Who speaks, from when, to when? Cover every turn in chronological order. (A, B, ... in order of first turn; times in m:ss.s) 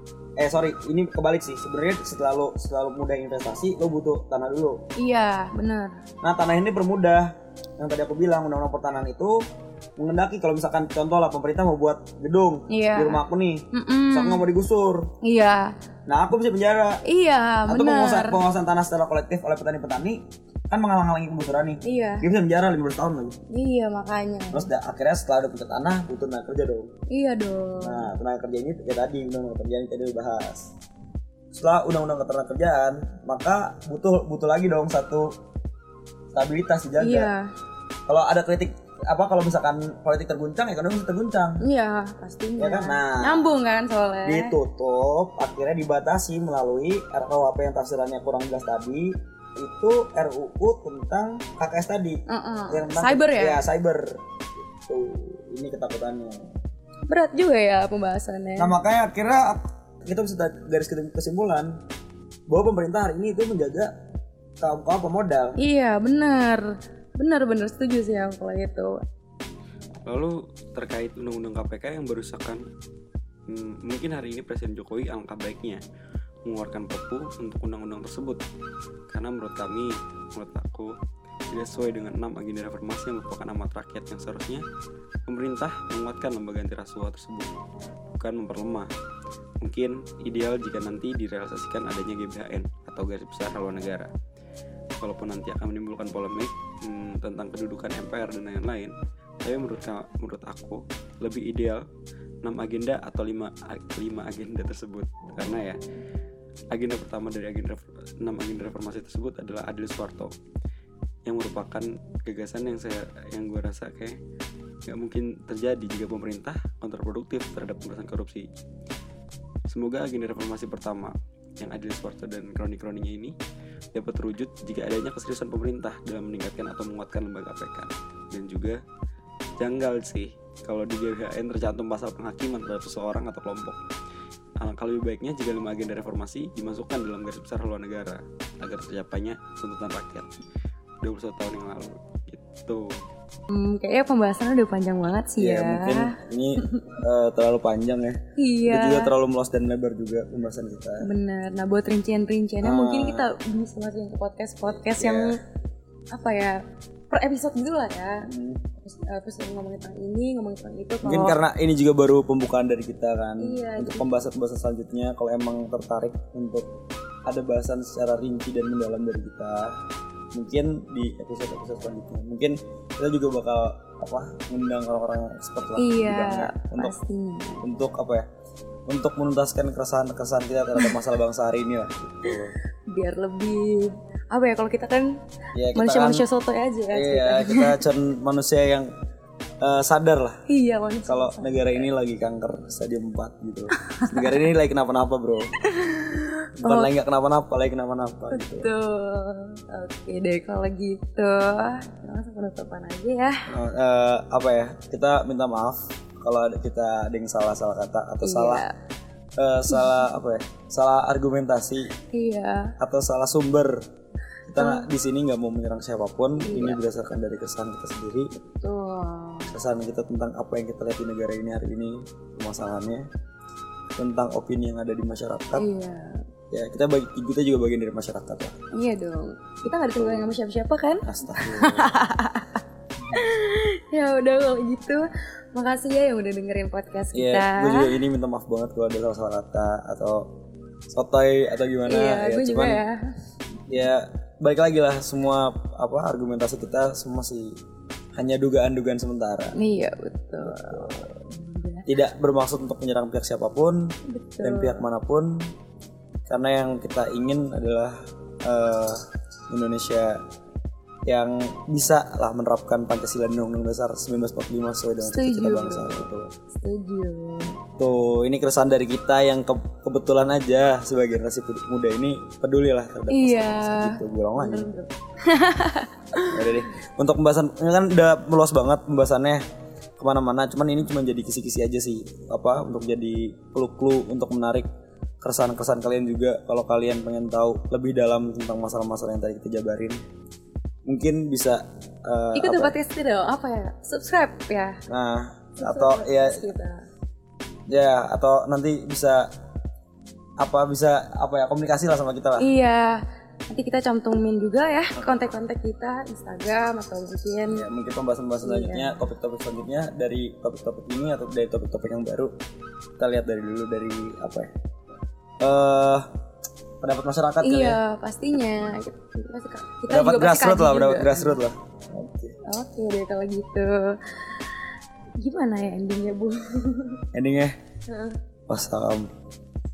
0:00.4-0:04.8 A
0:05.0-0:06.0 B
0:06.2-0:09.4 A
0:10.0-0:15.1 A
0:12.7-0:13.2 B
0:13.7-0:14.4 B
0:15.2-0:15.7 B
0:16.1-0:17.0 A
0:17.1-0:18.4 B
0:17.7-0:23.4 A
0:21.8-0:22.2 B
0:23.5-0:24.7 B
0:24.5-0:26.9 A
0:27.1-0:28.1 B
0:27.8-0:30.7 A
0:31.5-0:35.3 A
0:36.3-0:37.3 A
0:37.0-0:37.5 B
0:38.1-0:41.6 A
0:41.6-0:44.5 B
0:42.6-0:43.5 A
0:44.2-0:54.1 A
0:52.3-0:53.6 B
0:54.9-0:56.5 A
0:57.1-0:58.8 B
0:58.6-1:01.8 A
1:02.5-1:03.9 A
1:04.6-1:05.6 A
1:05.6-1:06.7 B
1:07.2-1:09.0 B
1:10.1-1:12.6 C
1:13.5-1:15.8 C
1:16.5-1:18.4 C
1:19.1-1:20.9 C
1:21.5-1:24.6 C
1:25.3-1:27.5 C
1:28.2-1:28.9 C
1:29.6-1:34.1 C
1:35.0-1:41.8 C
1:42.4-1:45.8 C
1:46.7-1:50.3 C
1:51.3-1:54.2 C
1:54.9-1:58.5 C
1:59.7-2:03.3 C
2:04.0-2:08.8 C
2:09.6-2:13.8 C
2:14.6-2:20.3 C
2:21.0-2:23.0 C
2:23.5-2:27.0 B
2:25.4-2:31.1 A
2:28.4-2:29.1 B
2:31.0-2:35.4 B
2:32.6-2:33.3 A
2:34.7-2:35.4 A
2:36.1-2:36.6 B
2:37.1-2:38.3 B
2:38.3-2:38.7 A
2:38.8-2:41.4 B
2:41.0-2:46.7 A
2:43.4-2:44.1 B
2:47.3-2:49.8 A
2:50.3-2:57.0 A
2:55.8-2:57.6 B
2:57.6-2:58.3 A
2:58.9-3:02.6 A
3:00.8-3:01.1 B
3:02.2-3:05.2 B
3:05.6-3:06.2 A
3:05.8-3:07.8 B
3:06.9-3:08.9 A
3:09.6-3:10.4 A
3:10.5-3:11.9 B
3:11.1-3:15.5 A
3:13.9-3:14.4 B
3:15.6-3:16.9 B
3:16.6-3:18.7 A
3:18.3-3:23.4 B
3:23.5-3:28.6 A
3:28.2-3:28.8 B
3:29.4-3:31.9 A
3:29.7-3:30.0 B
3:32.1-3:32.7 B
3:32.8-3:33.8 A
3:34.5-3:38.3 A
3:34.6-3:34.9 B
3:36.4-3:36.8 B
3:38.4-3:39.5 B
3:39.5-3:43.1 A
3:44.0-3:45.7 A
3:45.6-3:46.2 B
3:46.5-3:48.6 A
3:48.7-3:58.0 B
3:49.9-3:50.3 A
3:51.0-3:52.0 A
3:53.0-3:53.2 A
3:57.1-4:00.3 A
4:00.9-4:02.8 A
4:01.9-4:03.0 B
4:03.7-4:07.6 A
4:08.2-4:09.6 A
4:09.6-4:11.9 B
4:10.4-4:11.1 A
4:11.9-4:15.5 A
4:14.1-4:14.9 B
4:16.3-4:20.2 A
4:21.1-4:26.3 A
4:25.0-4:27.6 B
4:27.8-4:34.7 A
4:33.1-4:36.6 B
4:36.2-4:39.4 A
4:40.0-4:44.7 A
4:45.2-4:50.0 A
4:50.9-4:52.8 A
4:52.4-4:54.8 B
4:54.9-4:56.4 A
4:55.6-4:56.9 B
4:57.7-4:59.3 A
5:00.4-5:02.5 A
5:02.4-5:07.6 B
5:07.5-5:12.3 A
5:08.4-5:09.0 B
5:13.0-5:14.5 A
5:15.4-5:16.1 A
5:16.8-5:17.8 A
5:17.4-5:21.4 B
5:19.9-5:22.4 A
5:22.4-5:24.6 B
5:25.2-5:27.0 B
5:27.1-5:27.5 A
5:27.9-5:28.2 B
5:28.5-5:29.1 A